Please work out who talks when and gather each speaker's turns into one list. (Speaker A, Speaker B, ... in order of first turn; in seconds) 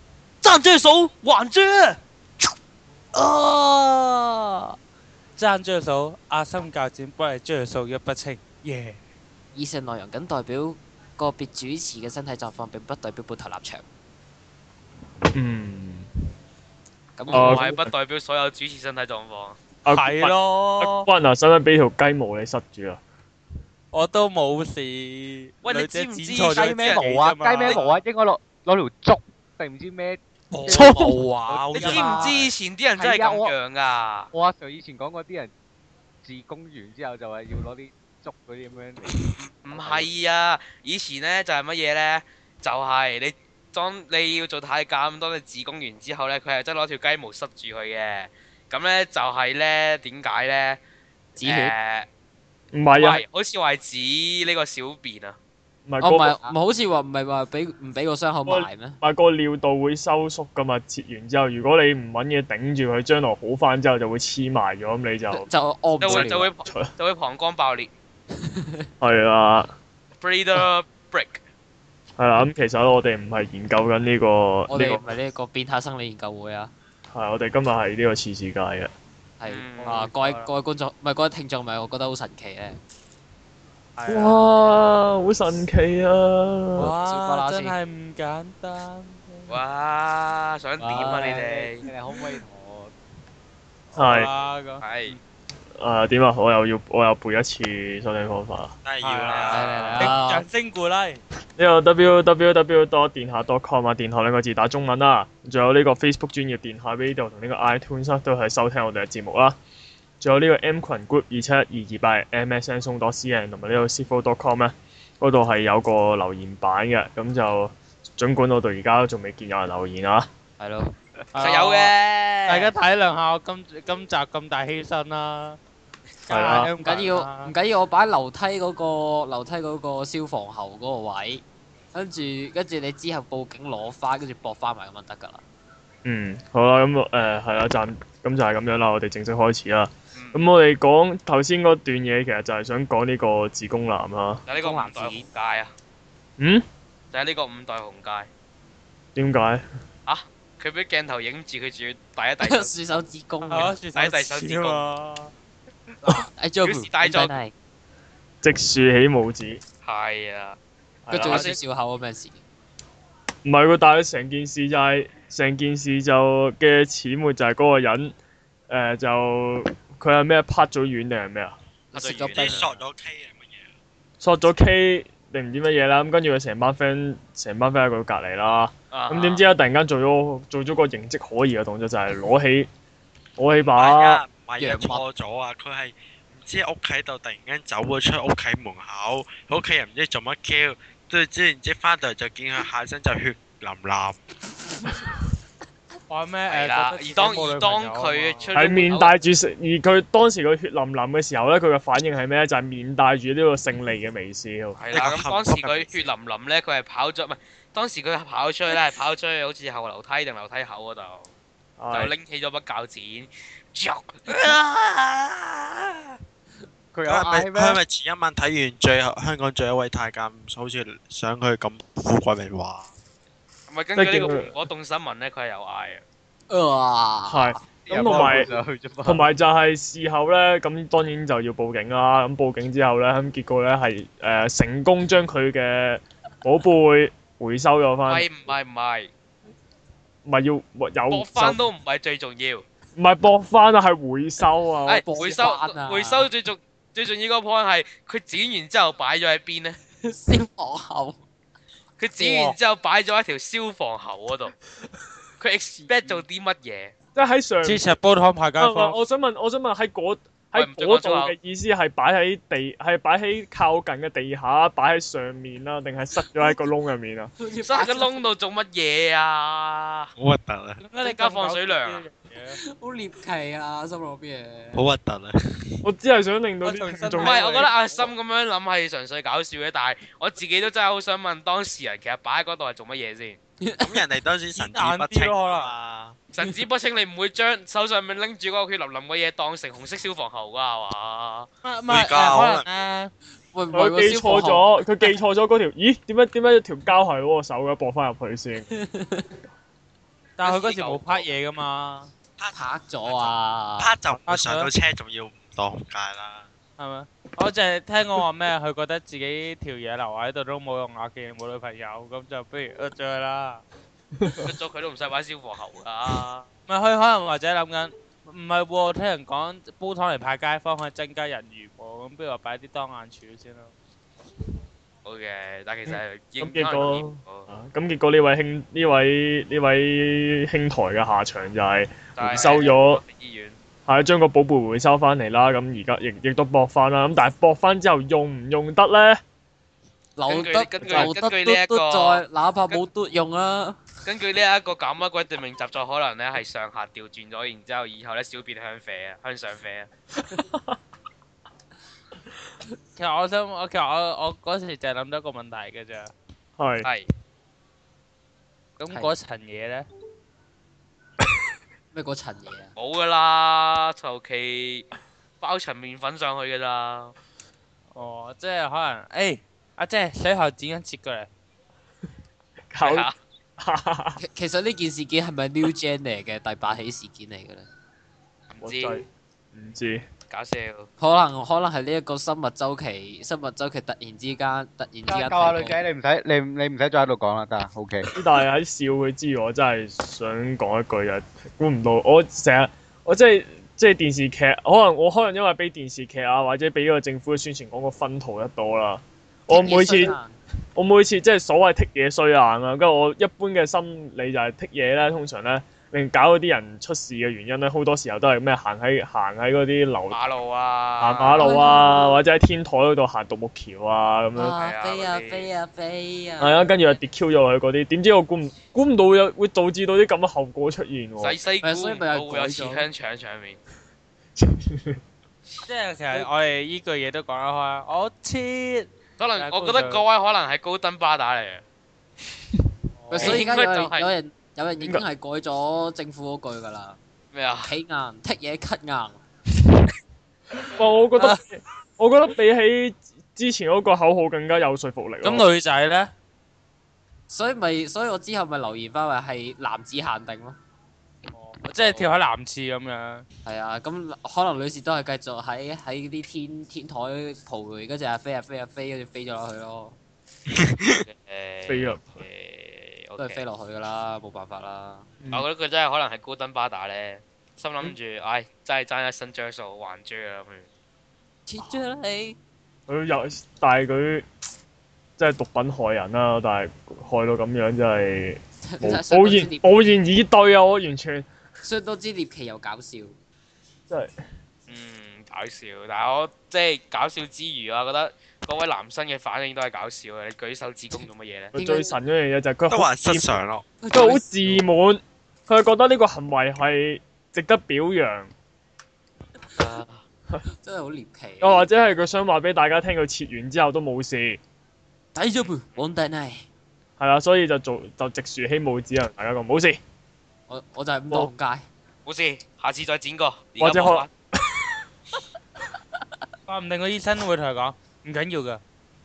Speaker A: 0.4-2.0, 17.3-19.6, 25.6-27.0, 30.6-34.3, 39.4-50.8, 51.4-52.1, 52.9-55.4, 66.0-67.9, 70.2-71.4, 79.5-80.1, 89.5-91.9, 94.8-95.2, 121.4-122.7, 140.2-140.4, 144.5-145.7, 147.1-148.3, 150.1-153.0, 154.0-154.8, 156.6-157.3, 159.8-160.6, 161.3-161.6, 171.9-172.7, 178.9-179.4, 196.5-199.1, 204.8-211.3, 211.9-216.2, 223.7-226.0, 238.1-239.1, 241.1-242.7, 244.9-249.8, 252.0-254.6, 255.4-256.9, 260.6-261.3, 267.6-270.1, 271.0-272.1, 277.2-283.4, 286.3-291.5, 300.4-301.3, 314.3-316.5, 325.1-327.5, 332.1-333.6, 340.3-342.8, 344.0-349.9, 362.8-364.9, 365.4-367.1, 372.8-373.1, 378.5-379.0, 380.3-380.9, 410.1-411.5, 414.6-415.5, 421.2-423.6, 429.2-431.6, 433.2-434.1, 437.3-437.7, 461.1-463.4, 465.3-470.7, 484.7-491.5, 499.6-500.0, 512.1-514.1
Speaker B: 3.1-4.6, 5.4-9.0, 19.9-21.1, 23.9-28.0, 30.6-32.4, 79.8-80.5, 84.0-84.4, 86.8-89.6, 93.9-94.8, 99.0-101.2, 121.3-122.0, 122.5-125.6, 126.3-127.5, 153.5-155.3, 156.0-156.3, 196.1-198.6, 257.6-259.0, 270.8-272.6, 276.6-278.1, 284.6-285.7, 291.6-293.1, 300.4-302.1, 304.3-304.7, 306.8-313.6, 316.7-323.7, 353.0-356.1, 358.8-359.9, 367.9-371.3, 425.7-430.1, 433.0-433.4, 445.2-446.1, 451.3-453.2, 516.5-518.6
Speaker C: 9.6-13.8, 17.2-17.7, 51.4-51.7, 56.0-59.0, 65.3-66.5, 68.4-68.8, 74.7-76.7, 79.4-82.8, 87.0-87.8, 90.8-91.5, 99.5-100.5, 120.6-120.9, 126.4-135.4, 144.5-145.3, 152.4-153.8, 156.1-157.5, 161.1-162.4, 171.9-172.8, 184.6-185.0, 226.5-227.6, 244.9-246.3, 250.0-251.2, 252.2-252.6, 267.4-268.2, 272.6-274.8, 283.6-284.0, 293.5-294.7, 298.7-299.3, 302.5-303.9, 332.3-332.7, 340.2-343.9, 361.9-362.7, 374.2-377.7, 381.0-385.8, 399.5-400.4, 411.4-412.2, 414.4-416.8, 421.6-422.9, 433.1-437.0, 437.6-439.2, 447.3-450.6, 453.4-460.0, 463.2-465.1, 471.5-472.4, 478.6-479.7, 481.6-483.1, 491.5-492.0, 493.8-494.6, 500.6-501.7, 505.1-506.4, 510.5-511.7
Speaker D: 15.3-16.1, 17.3-17.9, 19.9-23.0, 30.8-31.1, 52.7-53.2, 55.9-56.4, 58.5-65.5, 66.0-66.9, 69.0-69.7, 72.2-75.0, 77.1-78.9, 84.1-86.9, 94.0-94.3, 95.8-98.8, 101.6-109.6, 110.2-120.3, 126.3-126.7, 136.1-144.4, 146.4-146.7, 149.2-149.6, 158.4-159.6, 161.1-161.5, 163.4-168.2, 168.7-171.6, 174.2-182.7, 183.4-184.2, 198.6-205.1, 211.8-212.1, 224.0-224.5, 227.3-228.5, 229.1-238.3, 240.3-241.6, 243.0-245.4, 257.1-258.0, 258.6-267.3, 275.8-277.5, 293.7-298.8, 314.2-314.5, 325.9-333.0, 333.9-339.2, 340.9-341.1, 350.3-350.8, 356.6-356.9, 372.7-373.1, 373.6-374.2, 378.6-380.0, 388.1-400.1, 400.8-410.2, 411.0-414.6, 416.4-421.4, 424.4-425.0, 440.6-445.5, 461.7-462.2, 465.2-465.5, 472.9-474.3, 475.2-481.3, 491.5-493.4, 493.9-498.3, 501.4-504.4, 507.0-509.8, 513.6-514.8
Speaker E: 26.6-33.5, 34.3-35.5, 36.2-40.1, 91.0-92.9, 216.9-217.8, 227.8-229.3, 385.1-388.1
Speaker F: 98.8-100.1, 172.2-173.7, 183.7-194.2, 204.9-206.1, 217.1-222.9, 270.2-270.8, 274.8-275.9, 283.8-286.2, 291.9-292.7, 302.4-306.5, 460.5-461.1, 492.7-493.6